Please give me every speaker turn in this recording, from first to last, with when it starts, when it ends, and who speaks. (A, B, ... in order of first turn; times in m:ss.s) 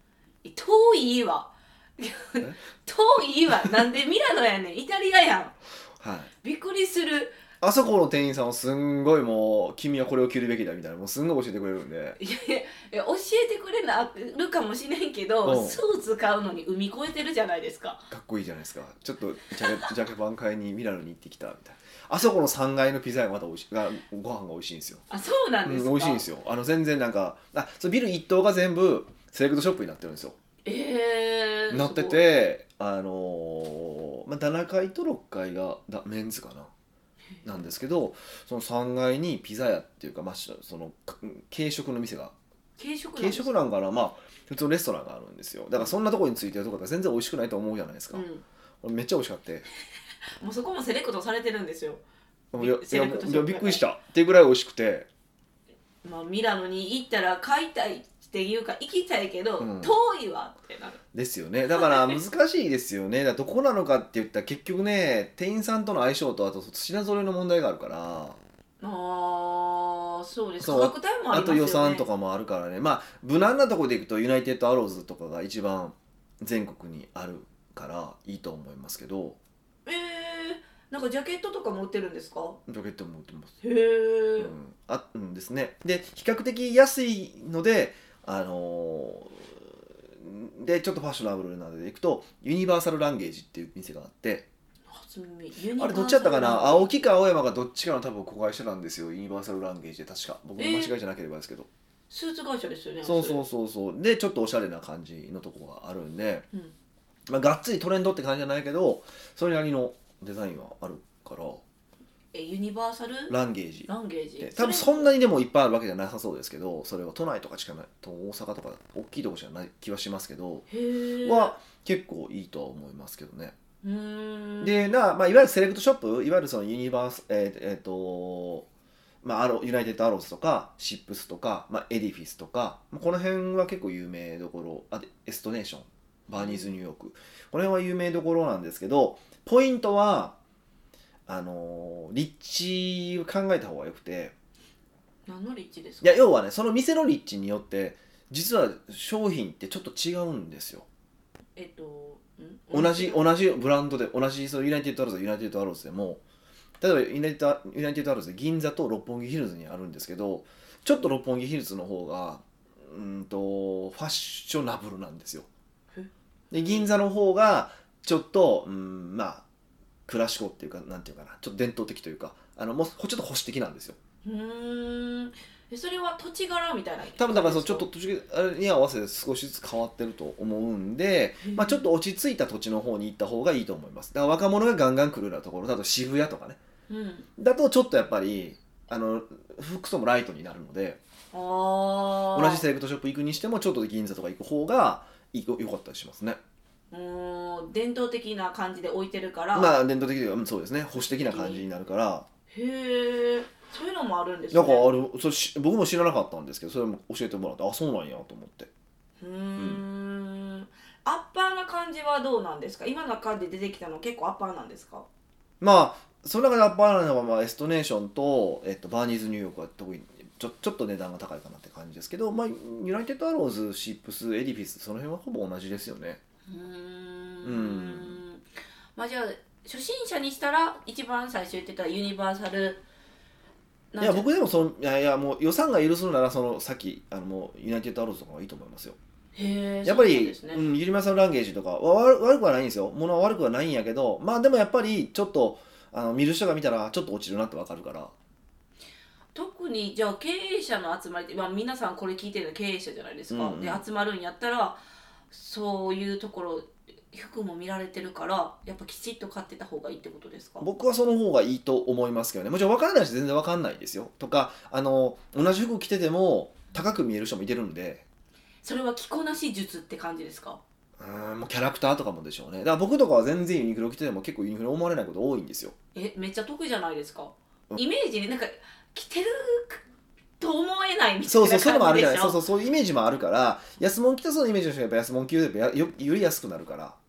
0:00.4-0:05.5 A
0:06.0-0:06.3 B
0:06.4-0:07.4 A
0:07.6-0:12.2 B
0:12.2-0:18.1 A
0:15.4-0:15.8 B
0:18.1-0:25.0 B
0:25.1-0:26.2 A
0:25.6-0:30.4 B
0:30.6-0:32.2 A
0:31.7-0:36.7 B
0:37.4-0:42.3 B
0:42.8-0:43.5 A
0:43.2-0:48.2 B
0:48.1-0:48.4 A
0:48.8-0:49.7 B
0:50.4-0:52.0 A
0:52.5-0:55.1 B
0:52.6-0:53.8 A
0:56.0-1:01.0 A
0:59.6-0:59.9 B
1:01.1-1:08.4 B
1:08.8-1:12.1 A
1:10.6-1:19.4 B
1:19.8-1:22.6 A
1:22.7-1:23.5 B
1:23.6-1:24.5 A
1:24.4-1:34.4 B
1:34.9-1:36.9 A
1:35.8-1:41.7 B
1:40.6-1:40.9 A
1:42.1-1:43.4 A
1:43.0-1:46.4 B
1:47.3-1:51.6 B
1:52.3-1:53.4 A
1:53.3-1:53.9 B
1:53.9-1:55.1 A
1:54.4-2:00.7 B
2:00.7-2:01.5 A
2:01.2-2:03.5 B
2:03.8-2:04.9 A
2:04.6-2:08.6 B
2:09.2-2:20.4 B
2:16.3-2:16.7 A
2:21.3-2:24.3 B
2:25.3-2:26.2 A
2:26.0-2:30.8 B
2:31.6-2:33.2 A
2:32.7-2:36.2 B
2:36.8-2:45.5 B
2:45.9-2:46.9 A
2:46.5-2:49.4 B
2:50.0-2:54.0 B
2:54.2-2:57.9 A
2:57.2-3:06.6 B
3:01.4-3:01.8 A
3:06.9-3:07.3 A
3:07.4-3:11.0 B
3:11.3-3:12.6 A
3:12.3-3:16.4 B
3:16.9-3:19.7 A
3:19.5-3:22.3 B
3:21.0-3:21.6 A
3:22.5-3:24.9 A
3:24.5-3:28.7 B
3:29.2-3:35.1 A
3:29.6-3:29.8 B
3:35.6-3:46.2 B
3:46.5-3:52.8 A
3:47.4-3:48.2 B
3:53.9-3:54.3 A
3:54.0-3:59.0 B
3:59.4-4:00.6 A
3:59.8-4:08.1 B
4:09.3-4:14.8 A
4:13.3-4:13.8 B
4:15.3-4:20.7 A
4:20.6-4:28.0 B
4:28.6-4:30.6 A
4:31.0-4:35.7 B
4:35.9-4:39.8 A
4:40.4-4:42.4 A
4:41.2-4:47.0 B